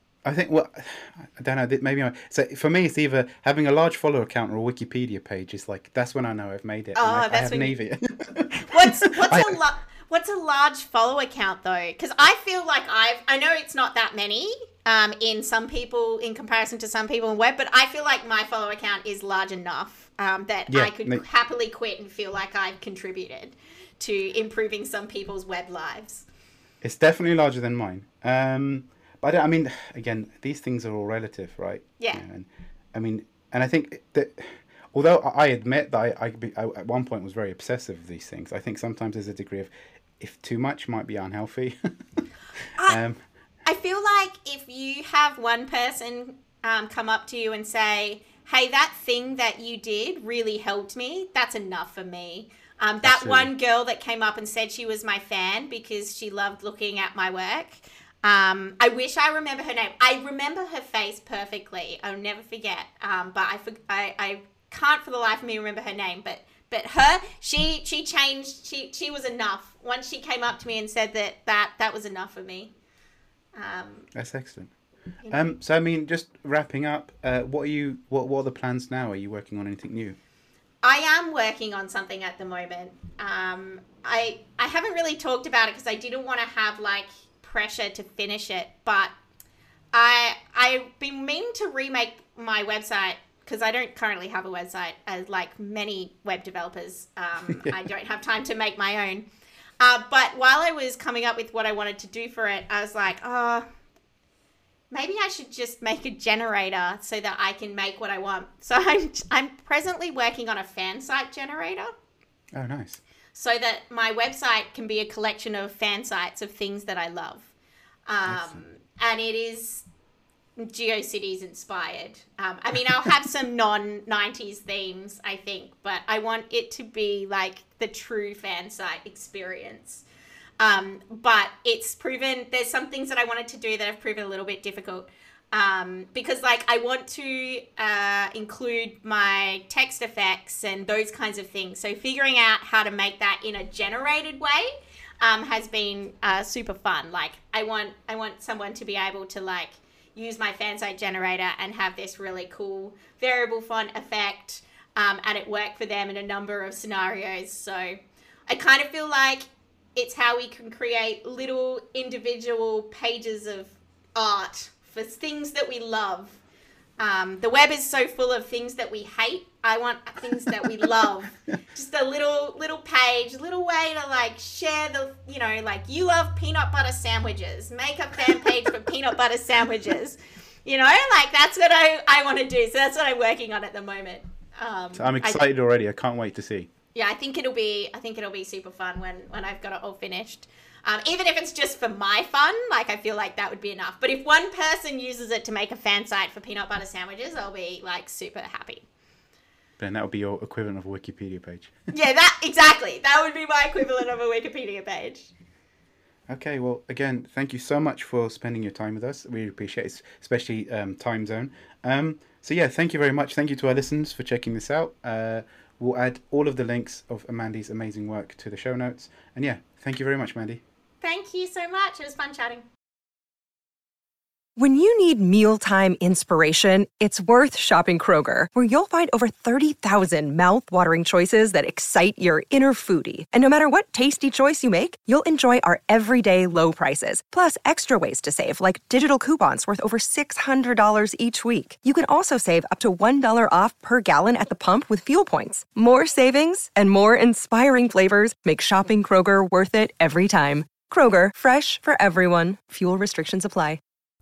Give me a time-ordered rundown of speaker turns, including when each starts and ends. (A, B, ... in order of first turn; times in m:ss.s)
0:00.2-0:09.6 A
0:07.0-0:07.7 B
0:08.7-0:26.2 B
0:20.7-0:21.2 A
0:26.8-0:41.9 A
0:32.0-0:32.2 B
0:42.8-0:43.2 A
0:43.7-1:12.7 B
0:53.0-0:53.5 A
1:13.6-1:14.1 B
1:14.1-1:14.7 A
1:15.2-1:15.5 B
1:15.3-1:20.2 A
1:20.8-1:29.1 B
1:29.9-1:39.2 B
1:39.8-1:43.7 B
1:44.9-1:51.9 B
1:52.5-1:53.0 A
1:53.4-1:57.5 B
1:58.1-1:59.8 B
1:58.3-1:58.6 A
2:00.6-2:10.0 B
2:10.6-2:46.4 B
2:47.0-3:05.4 B
2:50.4-2:50.8 A
3:05.0-3:06.7 A
3:06.9-3:18.8 B
3:19.8-3:21.7 A
3:21.9-3:25.3 B
3:26.3-3:40.6 A
3:41.0-3:42.6 B
3:44.6-4:13.8 C